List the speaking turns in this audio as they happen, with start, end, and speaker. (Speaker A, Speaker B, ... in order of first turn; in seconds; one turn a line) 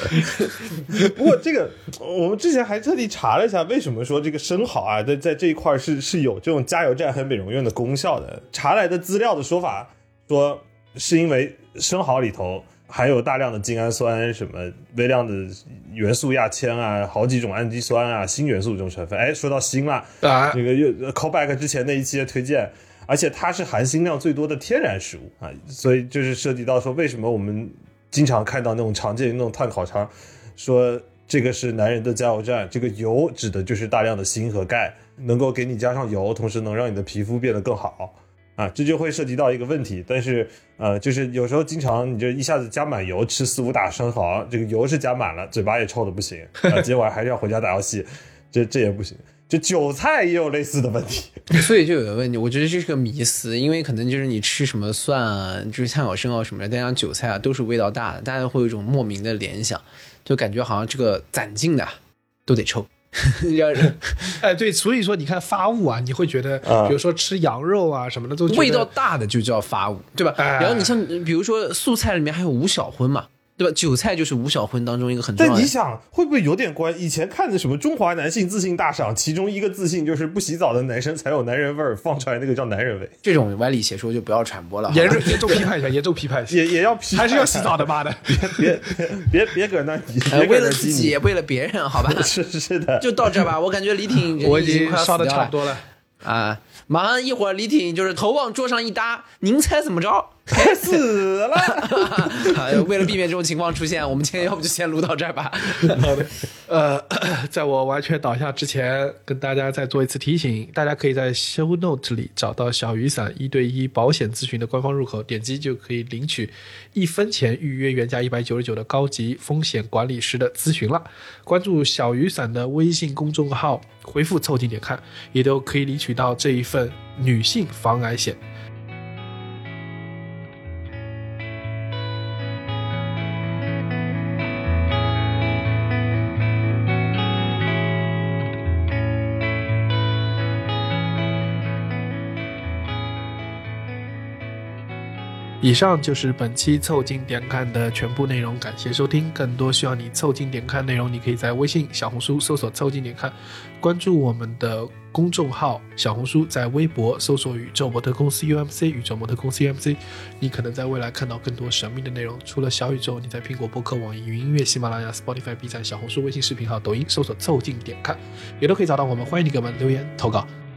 Speaker A: 0.4-51.4
Speaker B: 20.2-20.6
Speaker C: 51.5-64.4
Speaker B: 64.4-68.9
Speaker A: 66.6-67.0
Speaker C: 68.5-75.7
Speaker B: 70.4-71.0
Speaker A: 75.4-83.1
Speaker C: 83.2-85.5
Speaker B: 84.9-88.8
Speaker A: 86.5-91.2
Speaker C: 90.3-92.3
Speaker A: 92.0-93.5
Speaker C: 93.0-95.5
Speaker B: 94.4-95.8
Speaker C: 96.2-101.0
Speaker A: 100.5-102.8
Speaker C: 101.6-106.1
Speaker B: 105.9-128.4
Speaker B: 145.6-170.5